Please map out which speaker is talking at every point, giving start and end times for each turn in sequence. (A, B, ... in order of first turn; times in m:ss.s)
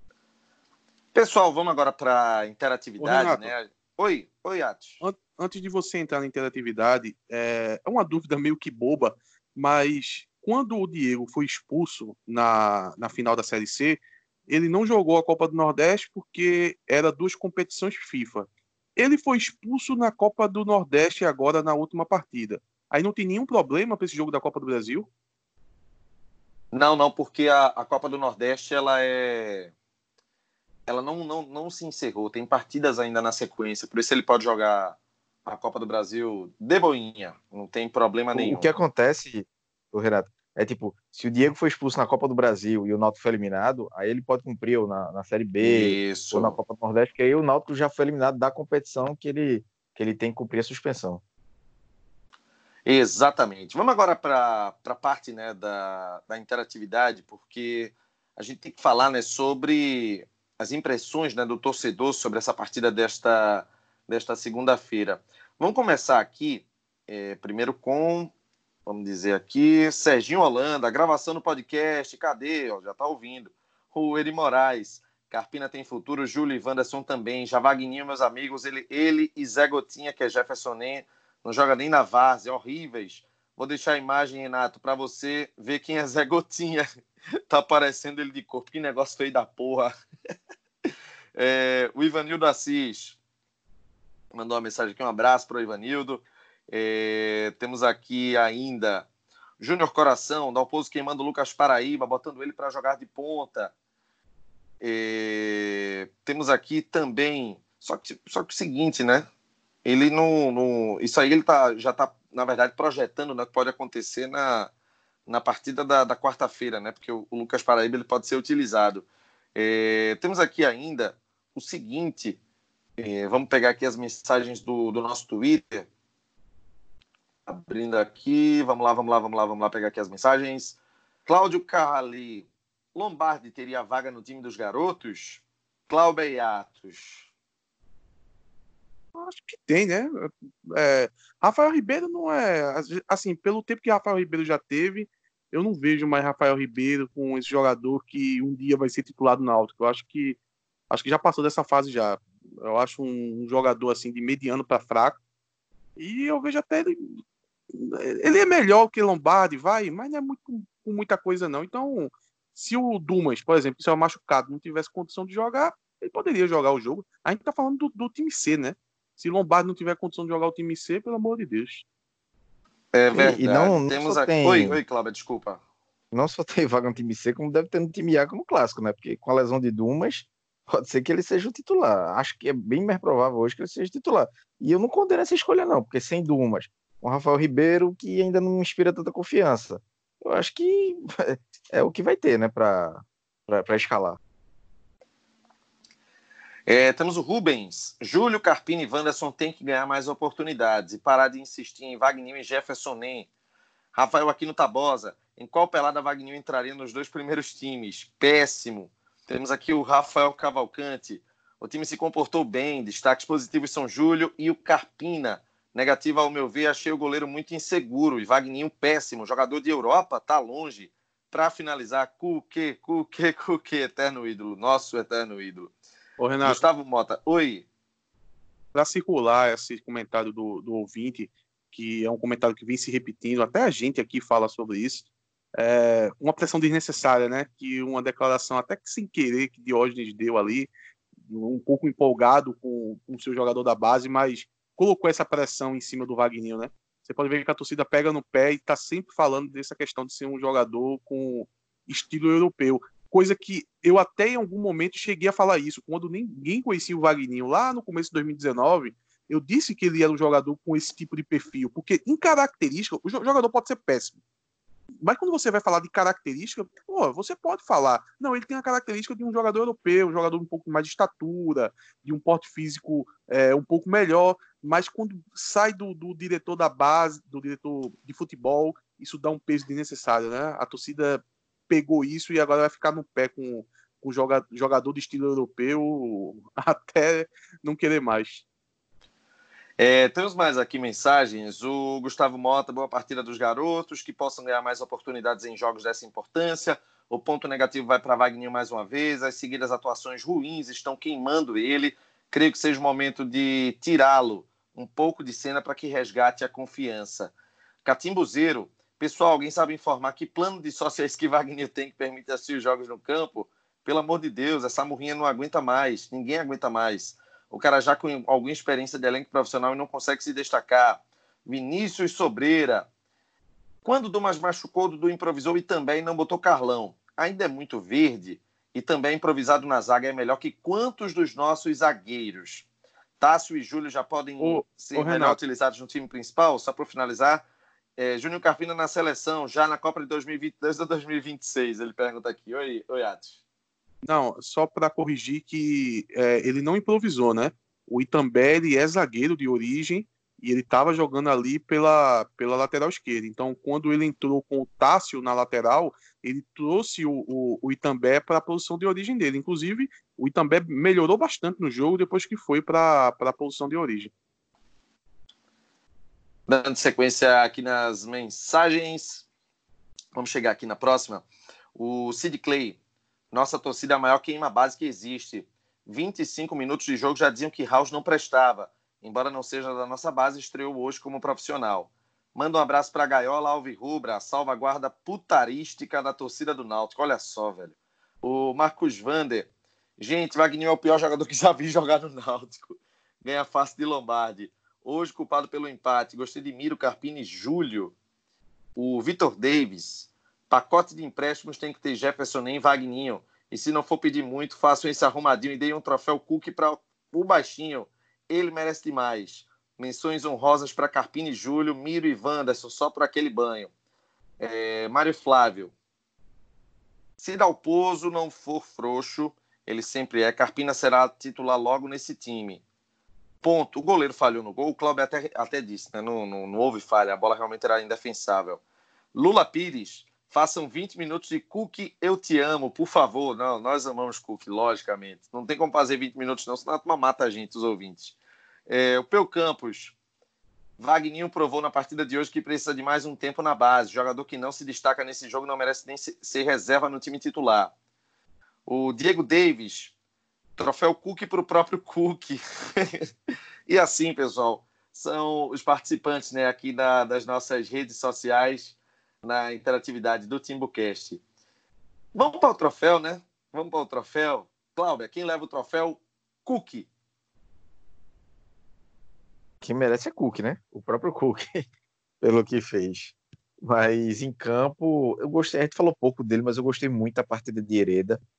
0:01.1-0:05.0 A
0:03.0-0:03.5 B
0:05.0-0:25.1 B
0:26.7-0:29.7 A
0:30.9-0:38.7 A
0:38.3-0:51.2 C
0:45.6-0:46.6 A
0:52.9-1:08.3 A
1:08.9-1:26.9 A
1:27.5-1:29.9 A
1:31.4-1:33.2 A
1:34.3-1:39.1 A
1:39.6-1:43.7 A
1:44.8-1:49.3 A
1:49.8-1:54.7 A
1:55.3-2:02.4 A
2:03.0-2:05.9 A
2:07.5-2:17.3 A
2:19.2-2:30.4 B
2:30.9-2:35.2 B
2:36.0-2:37.1 B
2:37.7-2:51.8 B
2:52.9-2:55.6 A
2:53.1-2:54.8 C
2:56.1-3:14.2 C
3:16.7-3:23.3 A
3:24.0-3:45.7 A
3:46.2-3:46.6 B
3:46.4-3:47.6 A
3:48.8-4:00.7 B
4:01.3-4:24.2 B
4:25.0-4:48.4 B
4:49.8-5:07.3 A
5:07.8-5:22.9 A
5:23.8-5:32.6 A
5:33.2-5:37.4 A
5:34.4-5:35.4 B
5:38.0-5:43.4 A
5:44.0-6:04.1 B
6:06.5-6:09.2 A
6:10.2-6:12.8 A
6:13.3-6:37.9 A
6:38.8-6:53.7 A
6:54.4-6:55.7 A
6:57.2-7:02.6 A
7:03.4-7:08.6 A
7:09.1-7:18.2 A
7:18.7-7:19.9 A
7:20.8-7:27.7 A
7:28.7-7:29.9 A
7:30.6-7:33.1 A
7:33.7-7:41.2 A
7:42.1-7:46.9 A
7:49.6-7:51.6 C
7:52.2-7:58.2 C